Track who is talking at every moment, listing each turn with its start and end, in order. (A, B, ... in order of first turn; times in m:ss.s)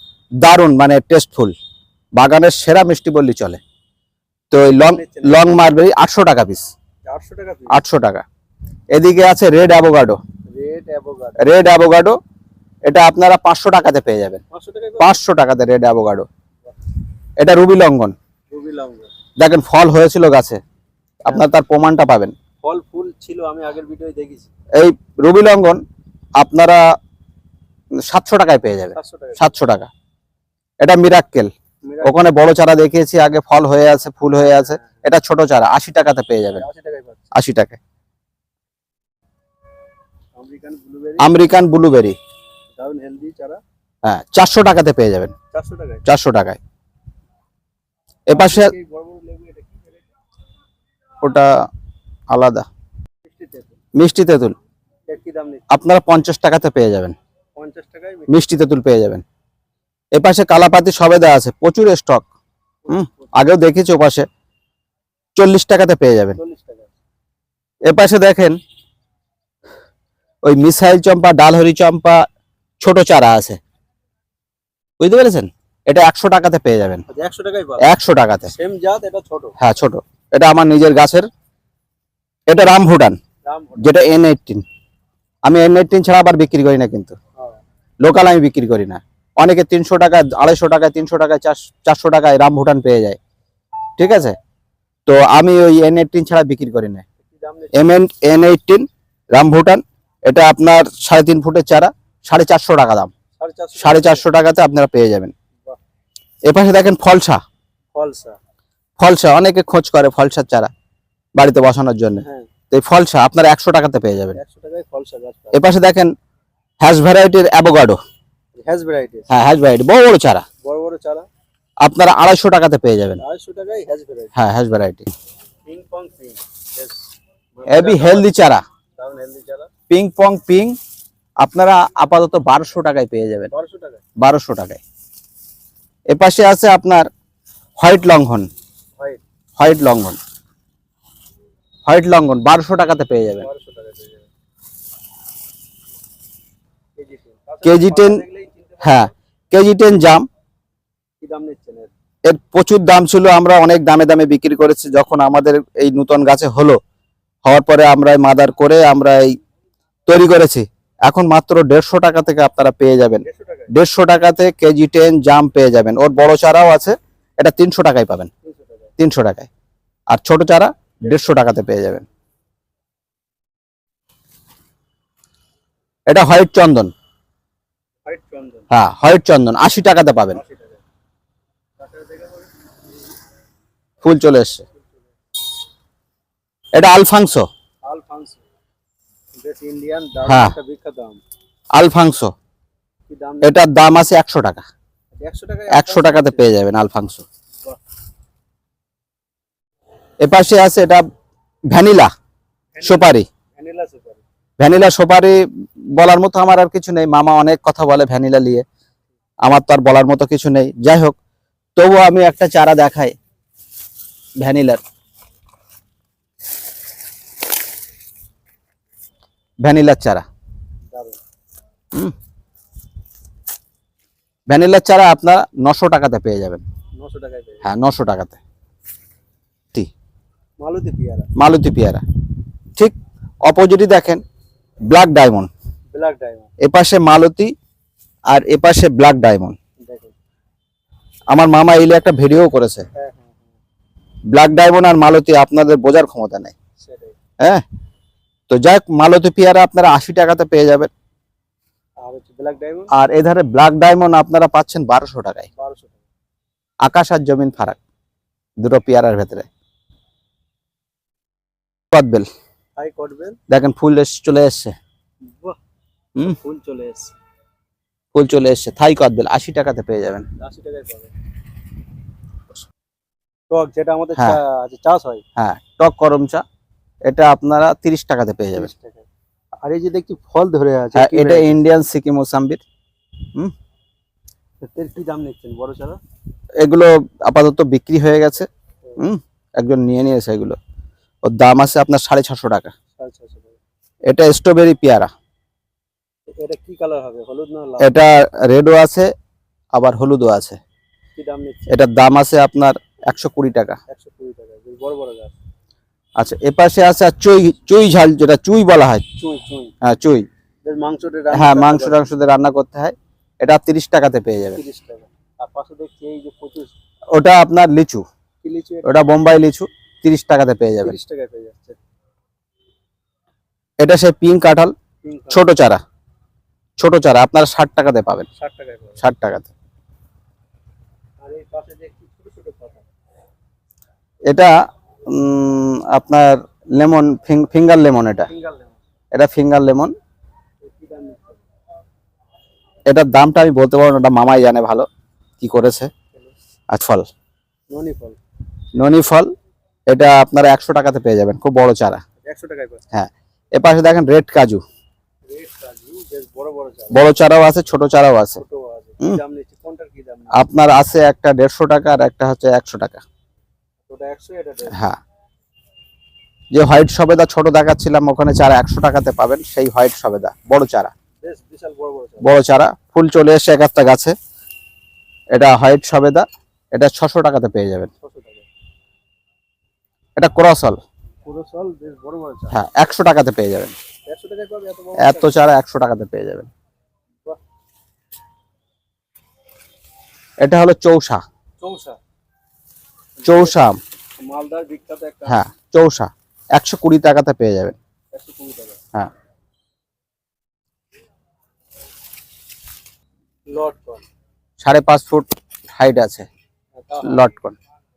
0:00.4-0:01.5 A
0:02.2-0:03.6 A
0:04.5-0:06.7 A
0:04.8-0:05.5 B
0:07.0-0:07.8 B
0:07.7-0:08.2 A
0:08.9-0:10.2 A
0:10.5-0:11.4 B
0:11.4-0:12.2 A
0:12.8-0:14.4 A
0:14.5-0:15.1 B
0:15.0-0:16.3 A
0:17.4-0:18.1 A
0:18.5-0:19.1 B
0:19.4-0:20.6 A
0:21.2-0:22.3 A
0:22.6-0:24.5 B
0:24.7-0:25.8 A
0:26.4-0:26.8 A
0:28.1-0:29.9 A
0:28.9-0:29.4 B
0:30.8-0:31.5 A
0:31.8-0:32.3 B
0:32.0-0:36.6 A
0:34.3-0:35.0 B
0:36.5-0:37.3 B
0:37.3-0:37.8 A
0:40.3-0:41.3 B
0:41.2-0:42.2 A
0:42.8-0:43.6 B
0:44.0-0:45.3 A
0:45.5-0:46.0 B
0:46.0-0:46.6 A
0:48.3-0:48.7 A
0:48.3-0:50.0 B
0:51.2-0:51.5 A
0:52.3-0:52.7 A
0:53.2-0:53.8 B
0:53.9-0:54.6 A
0:55.1-0:55.6 B
0:55.7-0:57.1 A
0:57.6-0:58.5 B
0:58.3-0:59.2 A
1:00.1-1:02.2 A
1:02.8-1:03.3 B
1:02.9-1:04.3 A
1:05.4-1:06.4 A
1:06.4-1:06.9 B
1:07.8-1:08.6 A
1:10.4-1:12.2 A
1:12.8-1:13.6 A
1:15.0-1:17.0 A
1:17.1-1:17.9 B
1:17.8-1:18.5 A
1:18.5-1:19.5 B
1:19.6-1:21.3 A
1:22.5-1:23.2 A
1:23.4-1:24.0 B
1:23.8-1:24.6 A
1:25.4-1:27.2 A
1:28.0-1:33.2 A
1:34.0-1:34.4 A
1:35.0-1:37.0 A
1:37.2-1:37.9 B
1:37.7-1:43.1 A
1:43.4-1:44.3 B
1:43.8-1:45.3 A
1:46.4-1:47.4 A
1:47.9-1:48.4 B
1:49.0-1:50.7 A
1:51.3-1:54.4 A
1:52.2-1:52.5 B
1:54.3-1:55.6 B
1:55.5-1:56.1 A
1:56.8-1:58.0 A
1:58.6-1:59.3 B
1:59.3-2:00.4 A
2:00.6-2:01.3 B
2:01.8-2:03.2 A
2:03.2-2:04.3 B
2:04.4-2:05.1 A
2:05.6-2:08.3 B
2:07.7-2:08.6 A
2:09.0-2:09.7 B
2:09.9-2:10.8 A
2:11.4-2:13.5 A
2:13.5-2:14.0 B
2:14.2-2:14.8 A
2:16.1-2:17.1 A
2:17.8-2:18.5 A
2:19.6-2:20.2 A
2:21.8-2:23.5 A
2:23.4-2:24.3 B
2:27.0-2:29.1 B
2:27.6-2:28.2 A
2:28.8-2:30.3 A
2:31.2-2:31.9 B
2:32.3-2:36.8 A
2:37.4-2:39.3 A
2:40.1-2:48.3 A
2:43.2-2:43.7 B
2:48.4-2:48.9 B
2:49.0-2:49.5 A
2:50.1-2:52.0 A
2:56.1-2:56.9 A
2:58.0-2:58.7 B
2:58.7-3:00.4 A
3:00.3-3:00.8 B
3:01.8-3:02.5 B
3:04.0-3:04.6 A
3:06.7-3:07.5 A
3:07.8-3:08.4 B
3:09.4-3:11.2 B
3:10.2-3:10.5 A
3:11.7-3:12.3 A
3:13.1-3:13.6 B
3:13.4-3:14.6 A
3:15.1-3:16.5 B
3:15.7-3:17.2 A
3:20.2-3:21.0 A
3:21.7-3:22.1 A
3:22.7-3:24.2 B
3:22.8-3:23.2 A
3:24.6-3:25.4 A
3:26.0-3:28.6 A
3:29.4-3:31.2 A
3:31.8-3:33.1 A
3:34.4-3:34.8 A
3:39.6-3:40.2 A
3:40.9-3:41.2 B
3:44.5-3:46.6 A
3:47.0-3:47.6 B
3:47.6-3:48.4 A
3:50.6-3:51.3 B
3:51.4-3:52.0 A
3:52.8-3:54.2 A
3:54.9-3:55.5 A
3:55.9-3:56.5 B
3:56.6-3:57.5 A
3:58.3-3:59.6 A
3:59.8-4:00.1 B
4:01.3-4:02.8 A
4:02.9-4:03.4 B
4:04.3-4:06.5 A
4:06.8-4:07.2 B
4:08.5-4:10.9 A
4:12.0-4:12.9 B
4:12.9-4:15.5 A
4:15.6-4:16.0 B
4:16.8-4:17.8 A
4:18.6-4:19.5 A
4:21.9-4:22.3 A
4:22.8-4:23.4 B
4:23.5-4:24.8 A
4:25.2-4:25.6 B
4:26.2-4:27.1 B
4:28.1-4:30.2 A
4:30.4-4:31.1 B
4:33.5-4:35.2 B
4:35.4-4:36.4 A
4:37.1-4:38.7 A
4:38.5-4:39.1 B
4:39.6-4:41.6 B
4:41.0-4:42.6 A
4:44.6-4:46.0 B
4:46.6-4:50.6 A
4:51.2-4:52.7 A
4:53.0-4:53.6 B
4:54.1-4:55.1 A
4:56.4-4:58.0 B
4:57.8-4:59.1 A
4:59.7-5:00.6 A
5:01.1-5:01.7 B
5:01.7-5:03.8 A
5:03.9-5:05.3 B
5:06.2-5:09.0 A
5:09.2-5:09.7 B
5:09.8-5:10.3 A
5:10.6-5:12.0 B
5:11.3-5:14.6 A
5:14.5-5:16.7 B
5:17.1-5:18.0 A
5:18.4-5:19.0 B
5:18.8-5:21.0 A
5:20.8-5:21.8 B
5:23.8-5:24.7 A
5:25.0-5:25.5 B
5:25.3-5:25.8 A
5:26.8-5:28.2 A
5:28.4-5:29.0 B
5:29.0-5:29.5 A
5:31.2-5:32.8 B
5:34.3-5:34.5 A
5:35.1-5:38.3 A
5:38.3-5:38.8 B
5:39.1-5:39.9 A
5:40.6-5:41.4 B
5:42.9-5:44.9 A
5:45.4-5:45.9 A
5:46.7-5:47.1 A
5:47.7-5:48.2 B
5:48.7-5:49.3 A
5:49.9-5:52.0 A
5:52.2-5:52.8 B
5:52.9-5:54.6 A
5:55.2-5:57.1 B
5:56.9-5:58.4 A
5:58.4-6:00.4 B
6:00.3-6:03.0 A
6:03.9-6:04.8 B
6:04.7-6:05.0 A
6:06.5-6:10.9 A
6:11.2-6:12.3 B
6:12.2-6:14.2 A
6:15.3-6:17.9 A
6:18.0-6:18.4 B
6:20.2-6:20.8 A
6:21.2-6:22.6 B
6:22.5-6:23.7 A
6:24.0-6:25.4 B
6:25.0-6:26.5 A
6:30.4-6:31.2 A
6:31.6-6:32.0 B
6:33.2-6:33.6 B
6:33.2-6:33.8 A
6:34.2-6:35.4 B
6:35.3-6:37.8 A
6:38.1-6:38.8 B
6:43.5-6:44.0 B
6:44.6-6:46.3 A
6:46.8-6:47.2 B
6:47.0-6:47.5 A